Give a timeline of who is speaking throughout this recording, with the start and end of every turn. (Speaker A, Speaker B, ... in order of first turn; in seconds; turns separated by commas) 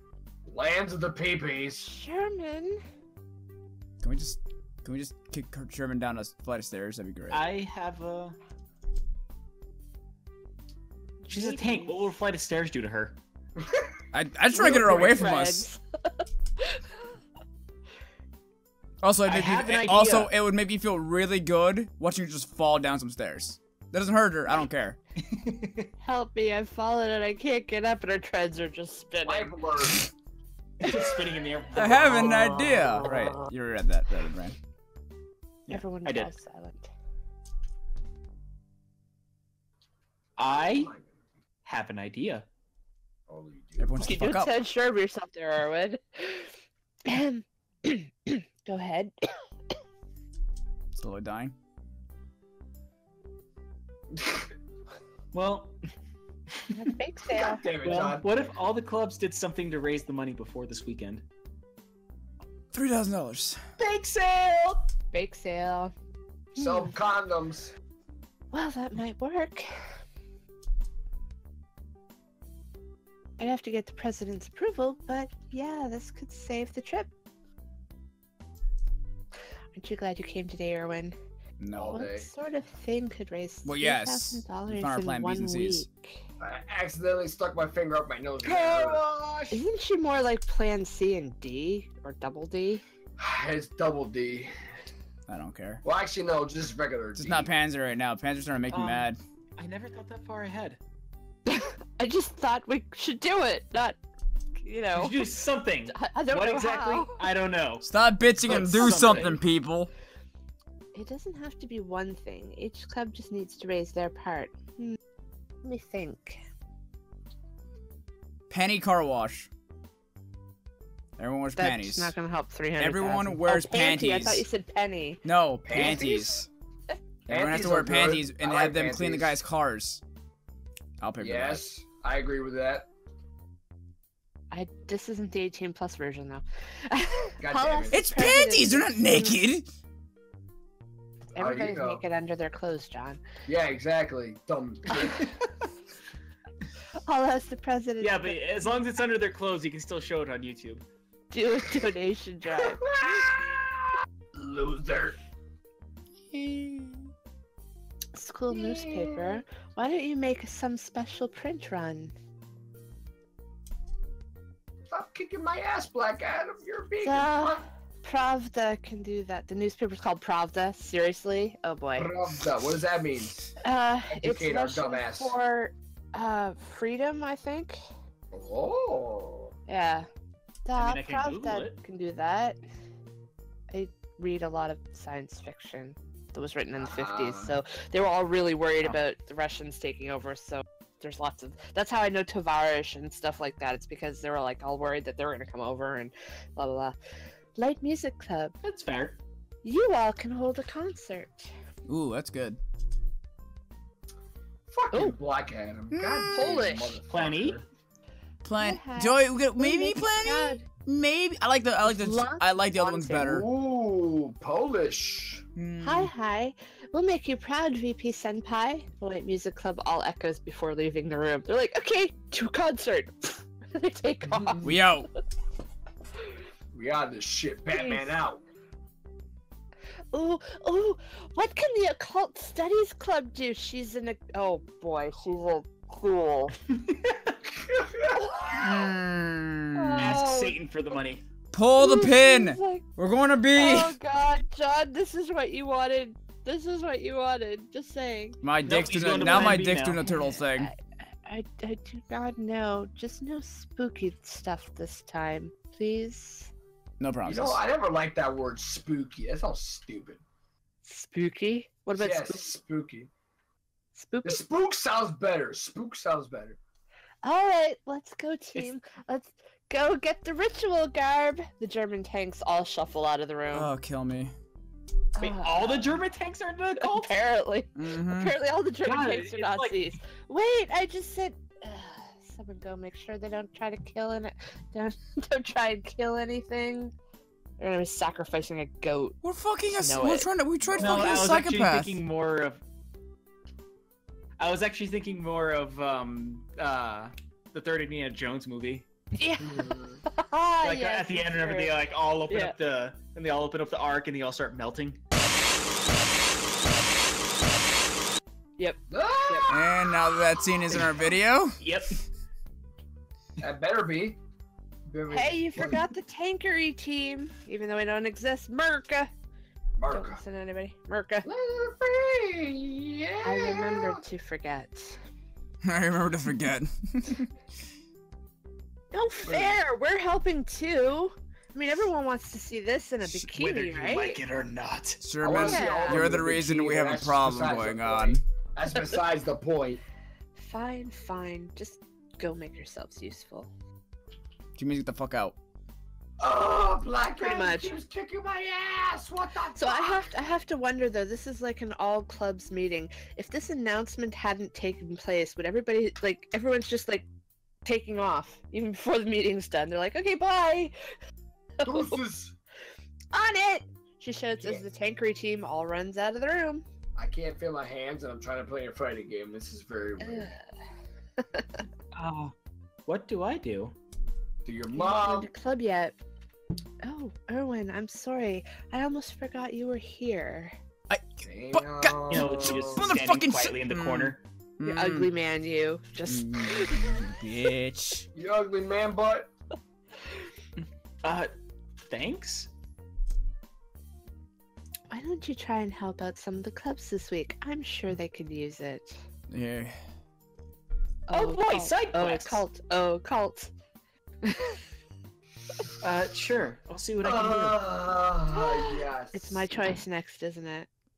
Speaker A: 0.4-1.9, Speaker B: 1.8-2.8, Speaker C: 4.0-7.4, Speaker D: 7.3-8.4, Speaker B: 11.2-12.1, Speaker D: 11.3-13.2, Speaker C: 14.1-15.7, Speaker B: 14.5-16.9, Speaker D: 14.7-15.3, Speaker C: 19.0-25.0, Speaker D: 19.2-20.3, Speaker D: 25.2-25.9, Speaker B: 26.0-29.5, Speaker A: 29.2-30.1, Speaker D: 30.8-33.0, Speaker C: 31.7-34.5, Speaker B: 32.8-33.4, Speaker D: 35.7-36.3, Speaker B: 35.7-36.9, Speaker D: 40.4-40.9, Speaker A: 40.5-41.1, Speaker D: 41.6-42.5, Speaker A: 43.3-44.2, Speaker C: 43.8-44.5, Speaker B: 44.0-46.5, Speaker B: 47.0-49.1, Speaker C: 50.9-51.5, Speaker A: 54.1-54.4, Speaker D: 55.3-55.7, Speaker B: 56.7-57.6, Speaker A: 57.3-58.3, Speaker D: 57.8-61.2, Speaker C: 62.7-63.6, Speaker D: 63.8-64.9, Speaker B: 65.1-65.9, Speaker A: 66.5-67.7, Speaker B: 66.6-66.9, Speaker B: 68.5-69.7, Speaker B: 73.4-77.1, Speaker B: 79.7-81.2, Speaker C: 81.6-82.0, Speaker A: 81.7-82.3, Speaker B: 81.9-86.2, Speaker C: 83.6-85.8, Speaker A: 86.4-89.0, Speaker D: 88.4-89.6, Speaker B: 89.5-92.8, Speaker A: 93.2-94.5, Speaker C: 95.3-95.8, Speaker A: 95.8-97.5, Speaker C: 97.2-99.2, Speaker D: 98.7-100.8, Speaker B: 101.5-104.0, Speaker B: 104.6-105.2, Speaker D: 104.9-107.8, Speaker B: 105.9-107.2, Speaker C: 107.8-109.9, Speaker D: 108.4-109.4, Speaker B: 110.9-115.0, Speaker B: 115.6-116.4, Speaker C: 118.5-119.5, Speaker C: 121.2-122.1, Speaker B: 121.5-125.2, Speaker C: 122.8-124.4, Speaker C: 125.2-126.5, Speaker A: 125.6-126.4, Speaker B: 125.8-126.0, Speaker A: 127.3-129.4, Speaker C: 127.3-130.0, Speaker C: 131.0-131.6, Speaker A: 131.2-132.9, Speaker B: 134.5-139.4, Speaker A: 137.4-137.9, Speaker C: 137.9-139.7, Speaker B: 141.3-143.2, Speaker A: 141.4-142.0, Speaker A: 143.4-145.3, Speaker D: 145.0-145.3, Speaker B: 147.1-148.4, Speaker D: 148.0-150.8, Speaker B: 151.3-153.2, Speaker A: 152.5-155.2, Speaker C: 156.3-157.1, Speaker B: 158.1-162.1, Speaker A: 158.5-159.4, Speaker A: 164.9-167.6, Speaker B: 167.0-172.1, Speaker A: 171.9-173.4, Speaker B: 173.6-177.8, Speaker A: 174.1-175.3, Speaker A: 178.3-179.5, Speaker B: 179.7-180.1, Speaker B: 180.6-182.6, Speaker D: 180.8-181.8, Speaker B: 183.7-196.9, Speaker A: 186.8-187.6, Speaker B: 197.6-198.5, Speaker D: 198.6-199.2, Speaker B: 199.6-201.5, Speaker C: 201.9-202.6, Speaker A: 204.7-207.6, Speaker C: 205.9-206.5, Speaker B: 206.3-207.0, Speaker D: 207.1-207.6, Speaker C: 208.4-213.4, Speaker B: 208.6-210.6, Speaker B: 211.8-213.4, Speaker A: 213.2-215.4, Speaker C: 215.5-216.1, Speaker B: 215.8-224.8, Speaker A: 224.3-224.8, Speaker C: 224.6-225.1, Speaker A: 226.7-228.4, Speaker B: 227.7-228.1, Speaker B: 230.1-236.6, Speaker D: 236.9-237.3, Speaker A: 237.6-238.8, Speaker B: 238.2-238.5, Speaker C: 238.5-240.2, Speaker B: 239.7-240.6, Speaker D: 240.0-241.2, Speaker C: 241.5-243.9, Speaker B: 241.8-242.8, Speaker B: 243.5-248.4, Speaker C: 248.4-250.7, Speaker D: 248.6-250.0, Speaker B: 250.0-256.5, Speaker C: 257.0-257.6, Speaker A: 257.2-260.2, Speaker B: 260.8-262.5, Speaker A: 261.9-263.1, Speaker B: 263.9-264.4, Speaker A: 264.2-266.6, Speaker B: 267.2-273.7, Speaker C: 273.5-274.3, Speaker B: 275.1-276.0, Speaker D: 275.2-277.1, Speaker B: 276.8-286.9, Speaker C: 277.8-278.3, Speaker D: 278.8-279.8, Speaker B: 287.6-289.2, Speaker C: 289.2-292.0, Speaker B: 289.7-290.3, Speaker A: 290.6-291.3, Speaker D: 290.8-292.6, Speaker D: 294.4-298.9, Speaker B: 299.2-301.7, Speaker A: 299.4-300.0, Speaker D: 300.6-305.0, Speaker B: 302.3-302.5, Speaker B: 308.6-309.5, Speaker A: 308.9-309.9, Speaker C: 309.5-311.6, Speaker D: 311.6-312.0, Speaker A: 313.4-314.2, Speaker A: 314.9-315.8, Speaker B: 315.1-319.1, Speaker A: 319.8-320.2, Speaker B: 319.9-321.3, Speaker A: 321.2-324.0, Speaker B: 323.2-325.0, Speaker C: 325.6-327.3, Speaker B: 328.9-334.2, Speaker A: 329.2-329.6, Speaker D: 333.2-335.0, Speaker C: 335.0-338.2, Speaker A: 335.2-339.8, Speaker B: 335.3-336.1, Speaker B: 340.4-343.5, Speaker C: 344.6-345.4, Speaker A: 346.2-350.1, Speaker B: 347.2-347.7, Speaker B: 349.5-357.0, Speaker B: 357.6-360.7, Speaker B: 361.6-362.0, Speaker A: 361.6-362.3, Speaker B: 363.1-366.6, Speaker A: 366.9-370.3, Speaker B: 370.0-370.4, Speaker B: 371.3-371.6, Speaker D: 371.9-372.3, Speaker D: 372.9-373.7, Speaker A: 374.4-375.3, Speaker B: 374.7-376.0, Speaker B: 376.8-380.5, Speaker C: 380.9-385.1, Speaker A: 381.2-382.8, Speaker D: 382.1-384.2, Speaker B: 384.6-387.1, Speaker C: 386.1-388.1, Speaker A: 388.1-389.3, Speaker D: 390.6-391.3, Speaker D: 391.9-392.5, Speaker B: 394.9-399.0, Speaker C: 399.3-399.8, Speaker B: 401.1-403.5, Speaker D: 401.1-402.4, Speaker B: 404.2-404.6, Speaker D: 405.8-407.7, Speaker A: 407.0-409.4, Speaker B: 408.3-410.7